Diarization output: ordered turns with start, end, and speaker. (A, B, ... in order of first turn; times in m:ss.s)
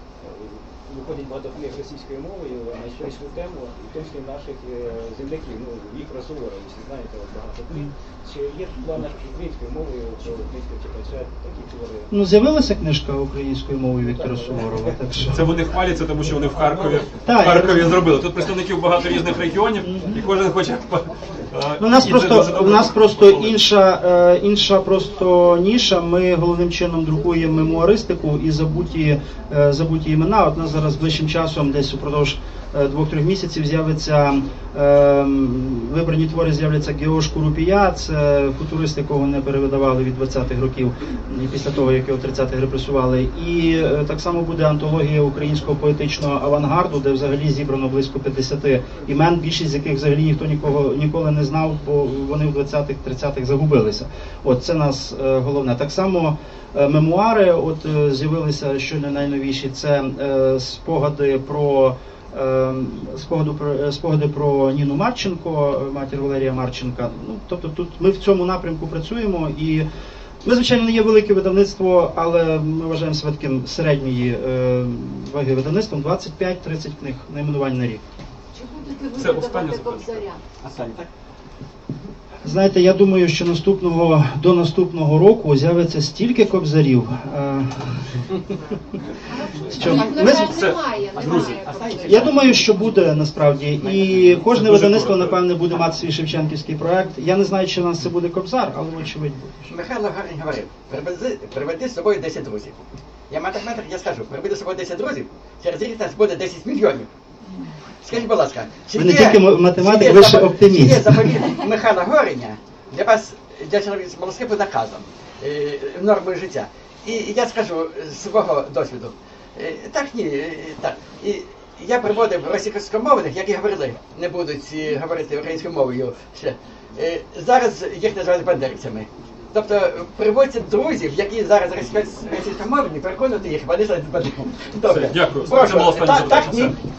0:00.2-0:12.2 A
0:12.1-0:15.4 B
0:14.0-0:15.2 A
0:15.3-0:23.6 C
0:17.2-0:18.0 B
0:19.9-0:20.1 B
0:21.8-1:09.9 B
1:10.4-1:18.0 B
1:18.5-1:20.4 D
1:19.1-1:20.2 C
1:20.6-1:21.1 E
1:22.4-1:28.3 B
1:29.3-1:32.6 D
1:29.6-1:30.6 B
1:29.8-1:31.6 C
1:31.6-1:32.8 E
1:32.0-1:39.7 B
1:33.8-1:34.2 E
1:34.1-1:35.4 C
1:39.7-1:47.1 E
1:48.0-2:16.7 E
1:49.0-1:51.4 B
2:14.8-2:16.8 C